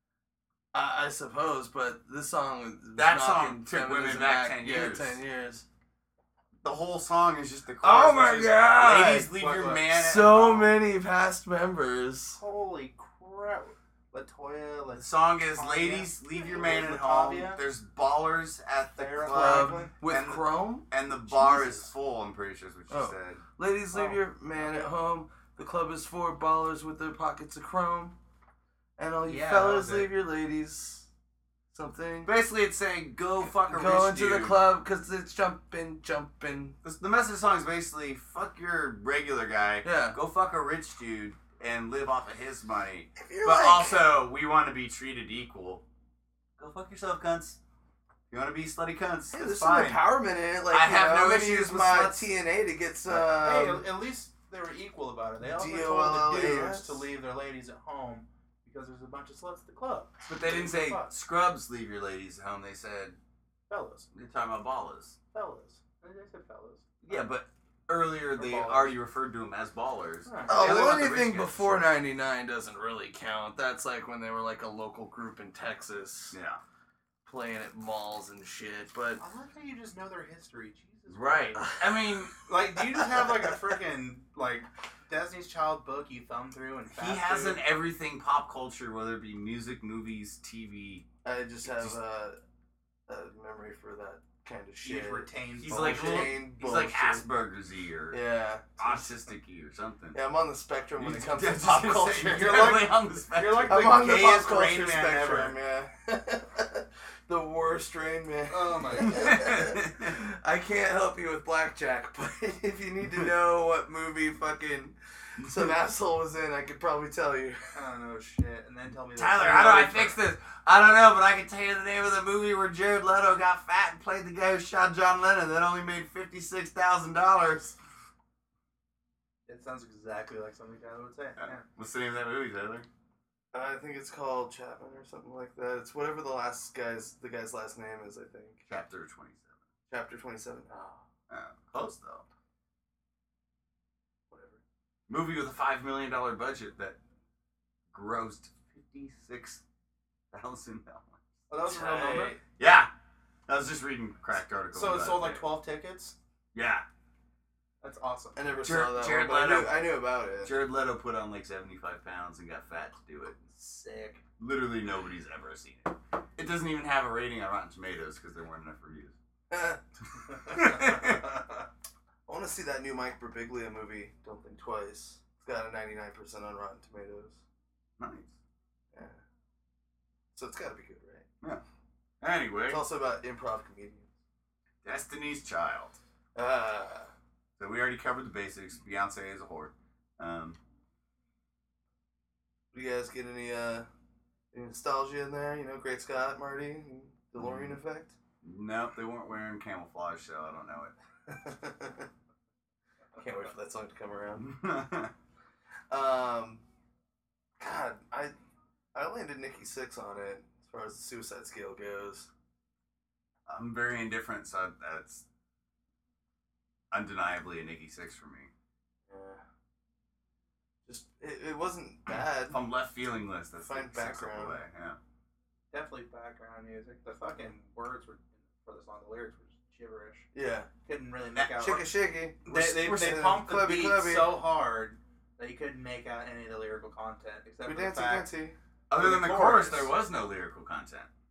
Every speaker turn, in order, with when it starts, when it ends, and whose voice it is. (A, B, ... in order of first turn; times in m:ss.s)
0:00.7-0:05.7 A
0:03.0-0:05.2 B
0:06.6-0:10.7 B
0:07.8-0:09.3 A
0:09.3-0:09.8 C
0:09.9-0:12.4 A
0:12.4-0:17.6 C
0:15.0-0:23.4 B
0:19.0-0:19.9 C
0:19.2-0:20.9 A
0:21.3-0:21.9 C
0:22.9-0:28.2 A
0:23.9-0:24.9 C
0:29.0-0:31.1 A
0:29.2-0:30.1 C
0:31.7-0:32.3 A
0:32.2-0:34.6 B
0:33.4-0:36.8 A
0:36.8-0:45.8 B
0:39.8-0:40.2 A
0:43.2-0:44.2 A
0:46.6-0:47.6 B
0:48.3-0:50.0 B
0:49.3-0:53.9 A
0:50.7-0:52.3 B
0:53.1-1:01.1 C
0:55.4-0:57.1 A
1:00.3-1:03.2 B
1:03.7-1:04.1 C
1:04.1-1:05.2 B
1:05.3-1:07.2 C
1:07.0-1:11.8 B
1:08.4-1:09.0 C
1:10.2-1:10.7 C
1:10.5-1:16.4 A
1:16.3-1:16.6 B
1:17.2-1:19.2 A
1:19.2-1:21.7 C
1:21.1-1:22.4 B
1:22.5-1:27.6 C
1:27.0-1:31.1 B
1:31.2-1:32.4 A
1:31.6-1:32.0 B
1:33.1-1:37.3 A
1:34.8-1:36.4 C
1:35.6-1:38.2 B
1:38.1-1:39.1 A
1:38.8-1:40.2 B
1:40.1-1:42.8 A
1:41.0-1:44.2 B
1:42.1-1:45.6 C
1:43.7-1:57.8 A
1:48.5-1:49.4 C
1:49.1-1:50.2 B
1:57.7-2:00.2 C
1:59.2-2:07.8 B
2:09.5-2:11.7 C
2:11.4-2:12.9 B
2:13.5-2:18.6 A
2:18.7-2:19.6 B
2:19.9-2:21.0 A
2:21.3-2:22.2 B
2:24.3-2:24.6 A
2:25.1-2:27.0 B
2:27.9-2:29.6 B
2:30.3-2:31.2 B
2:31.5-2:32.4 C
2:31.7-2:32.4 A
2:32.5-2:32.9 B
2:33.5-2:35.4 B
2:34.7-2:36.2 C
2:36.5-2:36.9 B
2:37.8-2:38.7 C
2:38.4-2:40.6 A
2:38.6-2:39.8 B
2:40.4-2:43.5 B
2:43.6-2:44.2 C
2:44.4-2:49.2 B
2:49.5-2:49.8 A
2:50.5-2:51.4 C
2:50.5-2:51.2 B
2:52.3-2:57.4 A
2:58.0-2:58.4 B
2:58.9-2:59.2 A
3:00.3-3:01.3 A
3:02.2-3:02.8 B
3:02.7-3:04.1 A
3:04.8-3:06.0 B
3:06.4-3:07.1 A
3:07.6-3:10.6 B
3:12.7-3:13.9 A
3:14.5-3:18.2 A
3:17.4-3:17.8 B
3:18.4-3:20.9 B
3:21.3-3:22.1 A
3:23.2-3:24.5 A
3:24.4-3:25.1 B
3:25.9-3:26.6 A
3:27.6-3:28.3 A
3:28.9-3:32.3 A
3:33.5-3:35.2 B
3:36.9-3:38.5 B
3:39.1-3:39.4 A
3:40.9-3:42.6 A
3:42.5-3:45.0 B
3:43.6-3:44.6 A
3:45.7-3:50.3 C
3:50.3-3:50.7 A
3:50.9-3:51.9 C
3:51.3-3:51.7 B
3:51.6-3:54.4 A
3:52.4-3:58.3 C
3:57.6-3:58.6 A
3:58.9-4:01.1 B
3:58.9-4:00.0 C